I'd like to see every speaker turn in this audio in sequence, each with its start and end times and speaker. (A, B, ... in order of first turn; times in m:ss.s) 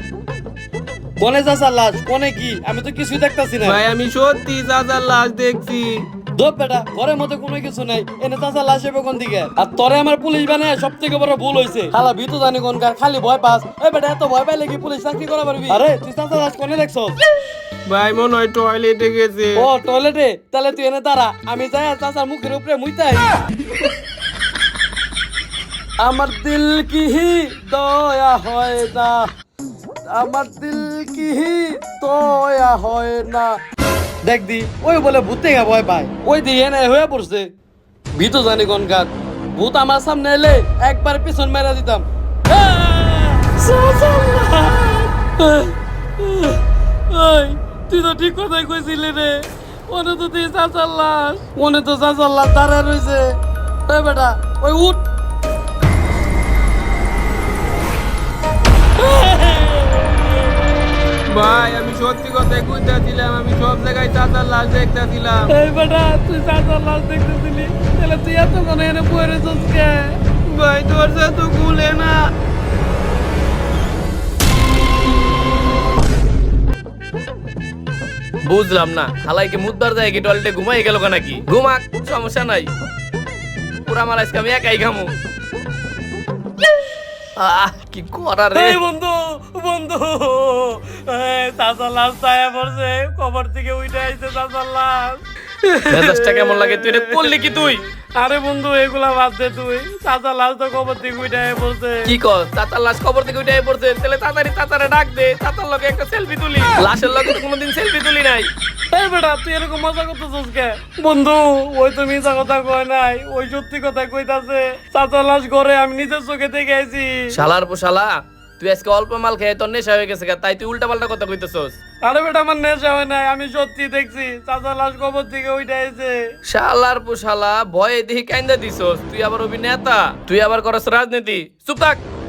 0:01.2-0:03.8 A
0:03.6-0:06.0 B
0:06.4-0:17.2 A
0:17.9-0:19.7 B
0:19.6-0:23.3 A
0:26.0-0:29.2 A
0:30.1-0:33.6 A
0:34.2-0:37.5 A
0:38.2-0:53.4 A
0:53.9-0:55.0 A
0:59.0-1:00.6 A
1:01.3-1:05.5 B
1:05.5-1:10.1 A
1:10.6-1:12.3 B
1:18.5-1:22.7 C
1:23.8-1:25.1 C
1:27.4-1:28.8 C
1:28.5-1:37.5 A
1:35.9-1:37.8 C
1:38.2-1:42.1 A
1:42.0-1:48.5 C
1:48.9-1:57.1 A
1:57.3-2:01.8 C
2:02.0-2:06.2 A
2:06.5-2:12.0 C